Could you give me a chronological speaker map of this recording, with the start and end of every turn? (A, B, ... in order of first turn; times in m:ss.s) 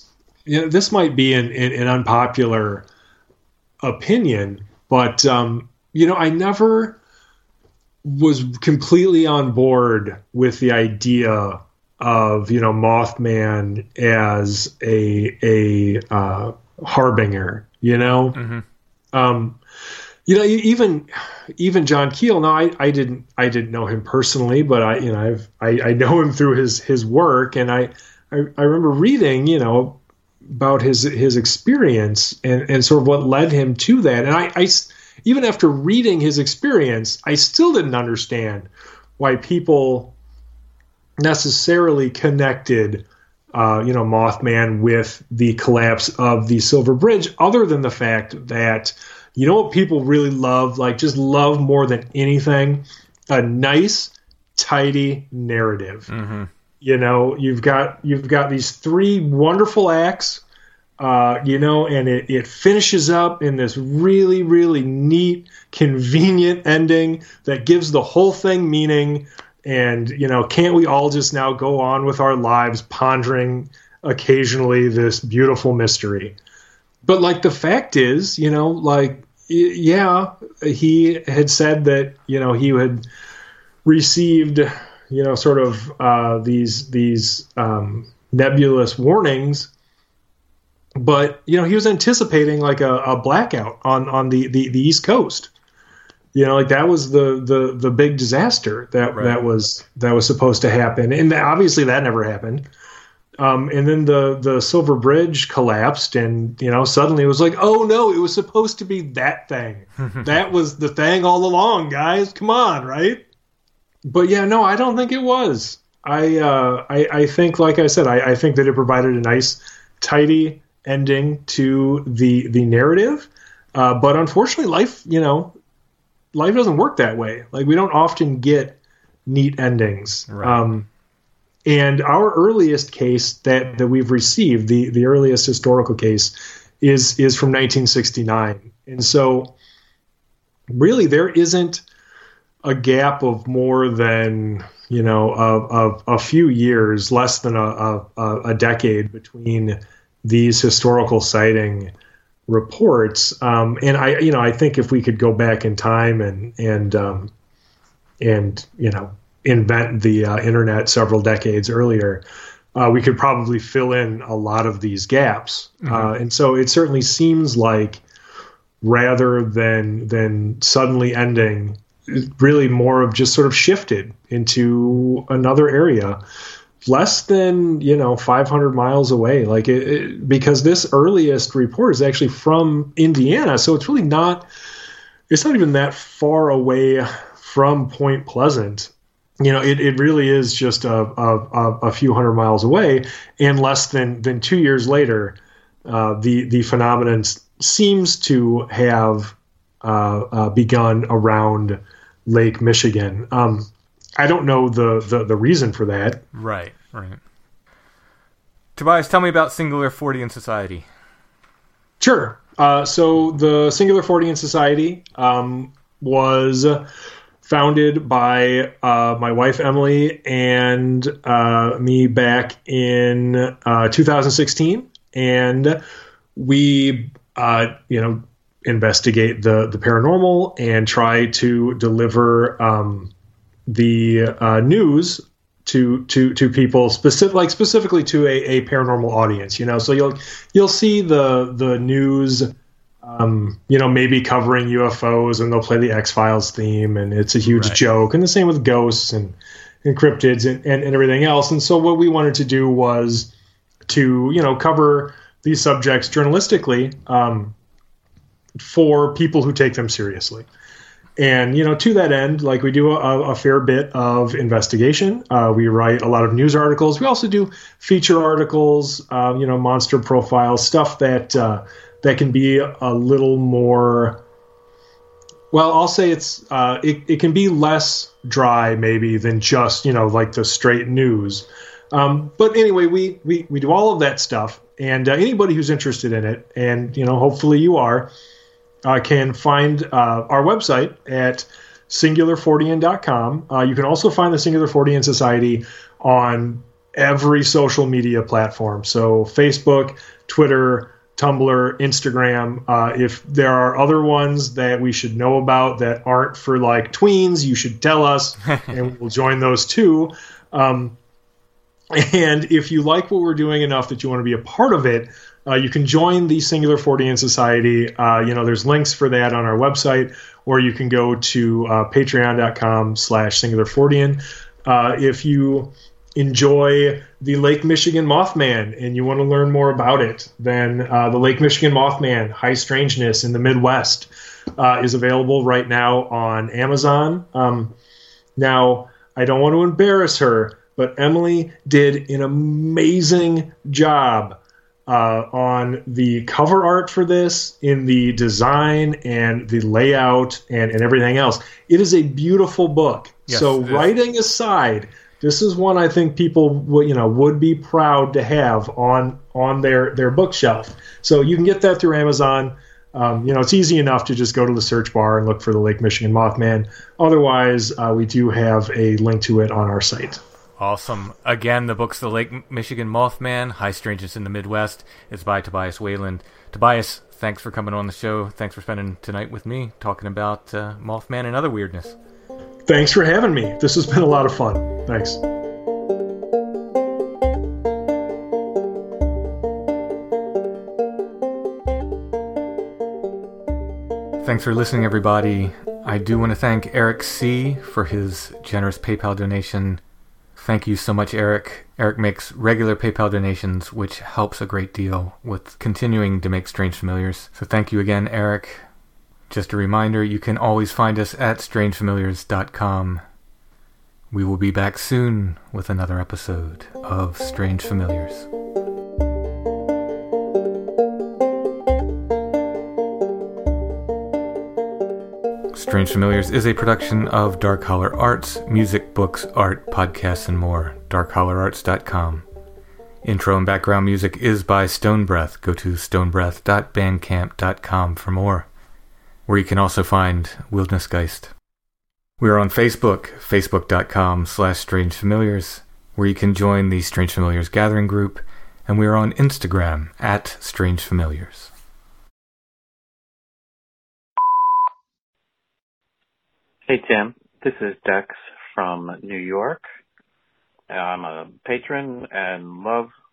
0:00.5-0:02.9 A
0:03.8-0:07.0 A
0:08.0-0:18.4 A
0:18.3-0:18.6 B
0:19.1-0:19.6 A
0:20.3-0:40.2 A
0:41.2-0:56.1 A
0:56.1-0:56.5 B
0:56.8-1:00.4 A
1:01.0-1:16.4 A
1:17.0-1:23.0 A
1:23.8-1:29.7 A
1:31.0-1:35.5 A
1:36.3-1:42.7 A
1:43.4-1:53.2 A
1:50.0-1:50.3 B
1:54.1-2:05.6 A
2:06.3-2:10.9 A
2:10.3-2:10.6 B
2:11.6-2:19.5 A
2:20.7-2:21.8 A
2:22.6-2:31.9 A
2:32.5-2:37.3 A
2:38.2-2:42.2 A
2:42.8-2:48.0 A
2:45.8-2:46.1 B
2:48.8-2:56.2 A
2:56.8-3:04.5 A
3:05.3-3:26.2 A
3:26.3-3:27.2 B
3:28.8-3:30.9 B
3:32.0-3:36.9 A
3:37.4-3:45.8 A
3:46.4-3:53.1 A
3:53.7-4:13.3 A
4:07.5-4:07.8 B
4:13.9-4:17.6 A
4:18.6-4:20.5 A
4:21.2-4:34.2 A
4:35.5-4:48.1 A
4:48.8-5:11.0 A
5:11.9-5:37.8 A
5:38.4-6:10.2 A
5:53.3-5:53.9 B
6:10.6-6:22.0 B
6:22.7-6:25.2 A
6:34.2-6:39.8 B
6:40.4-6:48.6 B
6:49.3-6:53.0 B
6:54.1-6:58.3 B
7:05.5-7:12.2 B
7:13.0-7:18.5 B
7:19.3-7:21.3 B
7:22.2-7:31.5 B
7:36.7-7:39.6 C
7:40.7-7:42.9 C